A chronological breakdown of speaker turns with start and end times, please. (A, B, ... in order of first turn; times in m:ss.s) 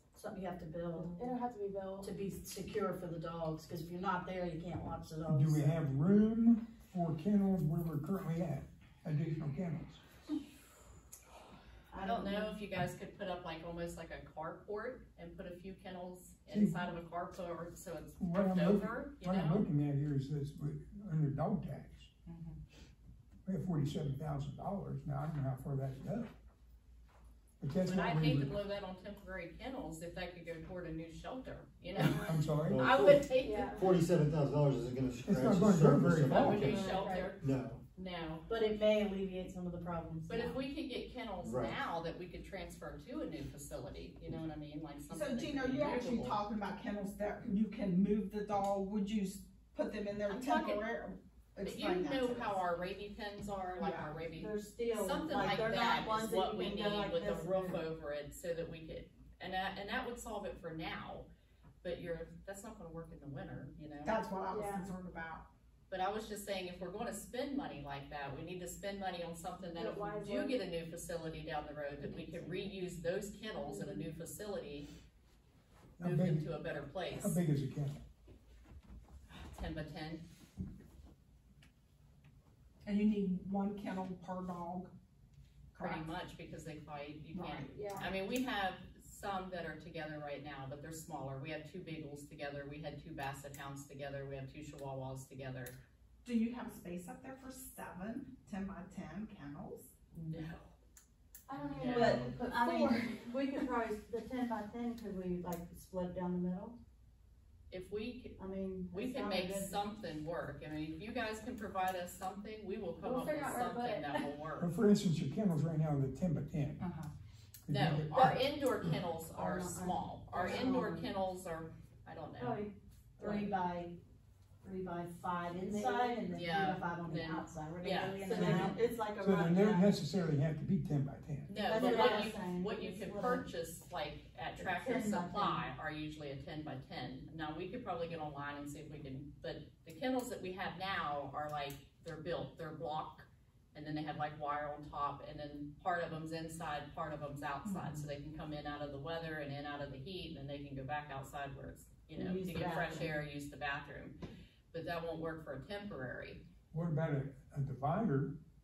0:00.1-0:01.2 A
0:01.1-0:02.1 B
0:02.0-0:05.7 A
0:05.3-0:10.0 C
0:11.9-0:12.6 A
0:12.0-0:19.6 D
0:16.5-0:16.8 C
0:18.2-0:22.1 C
0:23.4-0:26.3 C
0:27.6-0:28.6 C
0:27.8-0:33.8 D
0:31.9-0:32.8 C
0:32.0-0:32.4 B
0:32.6-0:33.1 E
0:33.3-0:33.9 B
0:33.8-0:36.8 E
0:35.2-0:36.8 C
0:35.5-0:38.5 D
0:36.6-0:37.4 B
0:36.7-0:37.0 A
0:38.5-0:40.6 A
0:40.3-0:46.4 D
0:45.1-0:52.6 F
0:50.3-0:50.8 D
0:51.6-1:01.3 D
0:53.8-0:54.2 F
0:54.3-0:57.8 A
1:01.8-1:04.2 D
1:04.0-1:05.5 F
1:04.5-1:04.9 B
1:05.9-1:14.9 D
1:09.7-1:10.6 B
1:13.6-1:14.0 B
1:16.0-1:16.5 C
1:16.0-1:17.4 D
1:17.0-1:18.0 C
1:19.4-1:20.2 D
1:22.8-1:24.9 F
1:25.7-1:26.1 F
1:25.8-1:35.8 D
1:27.3-1:28.0 F
1:27.7-1:28.0 B
1:36.2-1:39.9 F
1:40.2-1:40.6 D
1:41.5-1:46.8 A
1:41.6-1:42.4 D
1:41.8-1:43.4 B
1:47.7-1:48.4 D
1:48.4-1:49.8 A
1:48.9-1:54.7 D
1:53.0-1:54.4 B
1:54.6-1:56.8 C
1:56.8-1:57.1 F
1:57.6-1:58.5 C
1:57.7-2:02.7 D
1:59.3-2:01.0 A
2:02.4-2:03.9 A
2:04.6-2:06.8 A
2:05.7-2:06.3 B
2:06.0-2:08.7 E
2:06.4-2:08.2 D
2:07.9-2:09.9 A
2:08.2-2:08.6 B
2:08.4-2:11.5 C
2:11.5-2:34.2 D
2:11.6-2:13.5 A
2:14.6-2:15.6 A
2:27.6-2:28.0 F
2:32.2-2:33.0 A
2:34.7-2:36.4 D
2:36.7-2:38.4 C